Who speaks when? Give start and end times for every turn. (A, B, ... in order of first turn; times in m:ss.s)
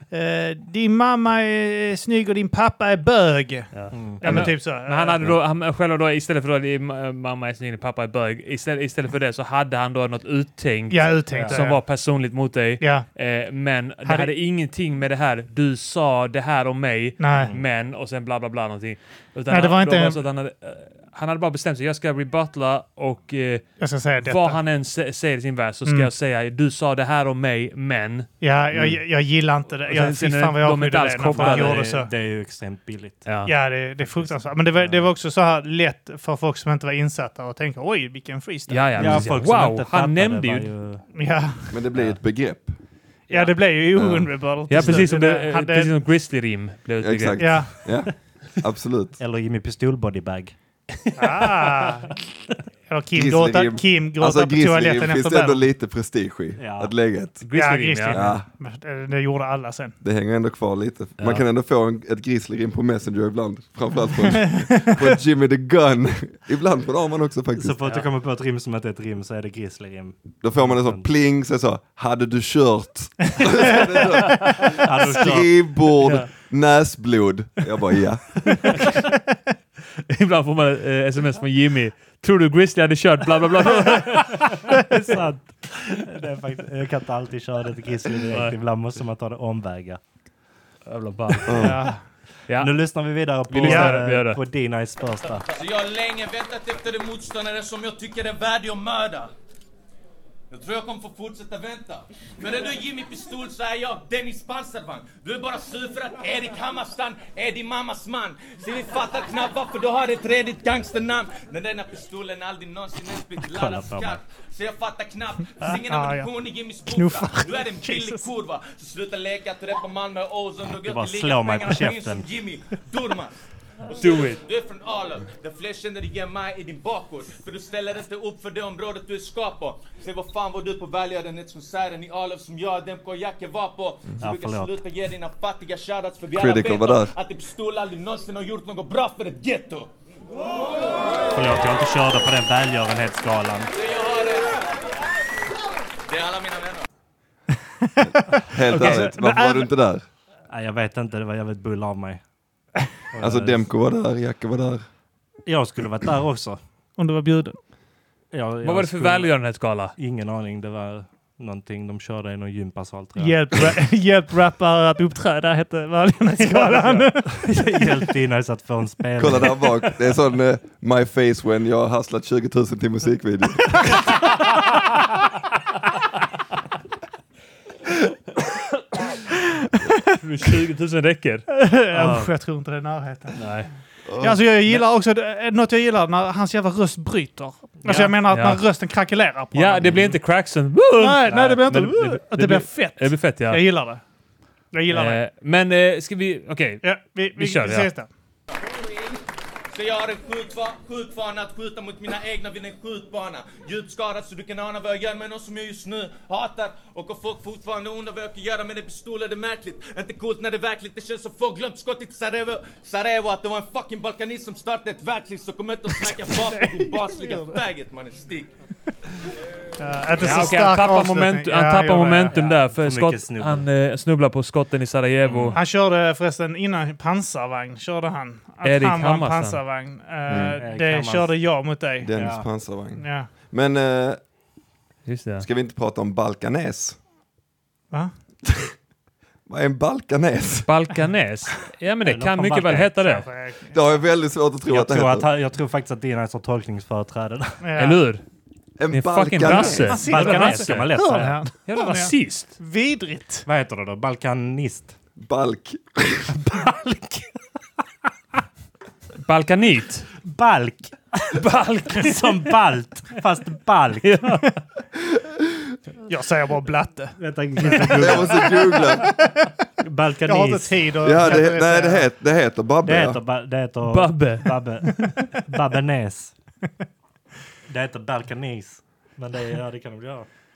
0:00.1-0:05.2 A
0:03.7-0:23.7 B
0:03.9-0:04.5 C
0:10.9-0:11.8 A
0:11.3-0:11.6 C
0:12.8-0:13.1 A
0:14.0-0:14.3 A
0:17.2-0:17.5 A
0:17.4-0:17.6 C
0:19.5-0:20.2 A
0:23.8-0:24.6 A
0:24.2-0:28.3 B
0:25.8-0:26.1 A
0:28.4-0:32.1 A
0:29.9-0:31.9 B
0:31.3-0:33.3 C
0:33.2-0:33.5 B
0:33.4-0:39.2 A
0:34.1-0:35.1 C
0:38.7-0:40.7 B
0:39.0-0:41.0 C
0:41.1-0:41.8 A
0:41.7-0:42.7 D
0:43.3-0:45.9 A
0:44.0-0:44.3 D
0:44.7-0:47.7 B
0:44.8-0:45.0 C
0:47.0-0:49.2 D
0:47.4-0:47.7 A
0:49.2-0:50.5 C
0:51.2-0:52.1 A
0:51.4-0:51.7 B
0:52.9-0:55.6 A
0:53.1-0:57.4 D
0:56.6-0:56.9 C
0:57.4-0:58.2 B
0:57.5-1:00.0 A
0:58.1-0:58.4 D
1:00.0-1:07.8 D
1:01.2-1:01.4 B
1:04.5-1:05.0 A
1:07.6-1:11.0 C
1:10.4-1:18.8 D
1:13.4-1:14.6 A
1:14.8-1:15.5 C
1:16.0-1:16.3 B
1:20.1-1:26.0 B
1:24.9-1:30.0 C
1:28.3-1:28.6 B
1:30.8-1:31.8 B
1:31.3-1:31.6 C
1:31.5-1:31.8 D
1:31.6-1:32.0 A
1:32.5-1:32.7 B
1:32.6-1:35.5 C
1:33.5-1:34.4 B
1:33.6-1:34.0 A
1:35.5-1:39.3 E
1:40.5-2:19.9 E
1:53.4-1:54.2 C
1:55.6-1:56.3 A
1:56.8-1:58.3 A
2:00.8-2:02.3 C
2:04.0-2:04.4 B
2:14.2-2:14.7 C
2:16.4-2:17.1 D
2:21.3-2:23.7 C
2:23.7-2:24.6 E
2:26.1-2:26.8 E
2:27.8-2:29.7 A
2:28.5-2:30.0 D
2:30.5-2:32.2 C
2:33.1-2:33.7 C
2:33.2-2:34.8 D
2:35.4-2:36.6 C
2:37.0-2:37.6 A
2:38.3-2:39.3 C
2:38.6-2:40.0 B
2:40.0-2:43.7 C
2:43.2-2:48.0 A
2:46.5-2:49.6 C
2:49.2-2:54.1 D
3:00.1-3:01.4 B
3:01.5-3:03.4 A
3:01.9-3:02.3 C
3:03.4-3:03.7 B
3:04.1-3:04.4 D
3:04.2-3:10.1 A
3:07.8-3:08.1 C
3:08.3-3:08.6 B
3:09.5-3:13.6 B
3:11.0-3:14.0 A
3:14.7-3:15.2 A
3:14.9-3:16.8 B
3:16.8-3:18.1 A
3:17.3-3:17.9 B
3:19.7-3:38.5 E
3:36.4-3:37.6 A
3:39.8-3:42.4 A
3:40.2-3:45.6 B
3:42.3-3:43.6 C
3:45.2-3:45.6 C
3:45.5-3:52.1 A
3:48.6-3:49.6 B
3:50.3-3:50.6 D
3:50.6-3:51.3 C
3:52.0-3:54.2 D
3:52.1-3:52.5 C
3:53.0-3:53.3 A
3:55.0-3:55.4 B
3:55.4-3:57.0 D
3:59.5-4:00.7 D
4:00.7-4:03.2 B
4:02.0-4:02.9 C
4:03.0-4:03.8 A
4:03.7-4:05.3 D
4:04.7-4:07.6 C
4:07.6-4:08.0 A
4:07.8-4:08.2 B
4:08.8-4:10.0 D
4:08.9-4:11.0 B
4:09.5-4:13.4 A
4:10.0-4:11.4 C
4:11.6-4:12.5 B
4:13.4-4:15.0 C
4:15.2-4:16.4 D
4:16.4-4:17.2 C
4:19.2-4:20.1 B
4:20.2-4:24.2 C
4:21.3-4:22.6 B
4:24.0-4:24.6 B
4:26.1-4:29.5 A
4:27.2-4:28.6 C
4:27.9-4:29.1 D
4:29.8-4:30.8 C
4:30.2-4:32.0 A
4:31.0-4:33.2 D
4:32.8-4:36.3 C
4:33.8-4:35.1 B
4:37.7-4:40.3 C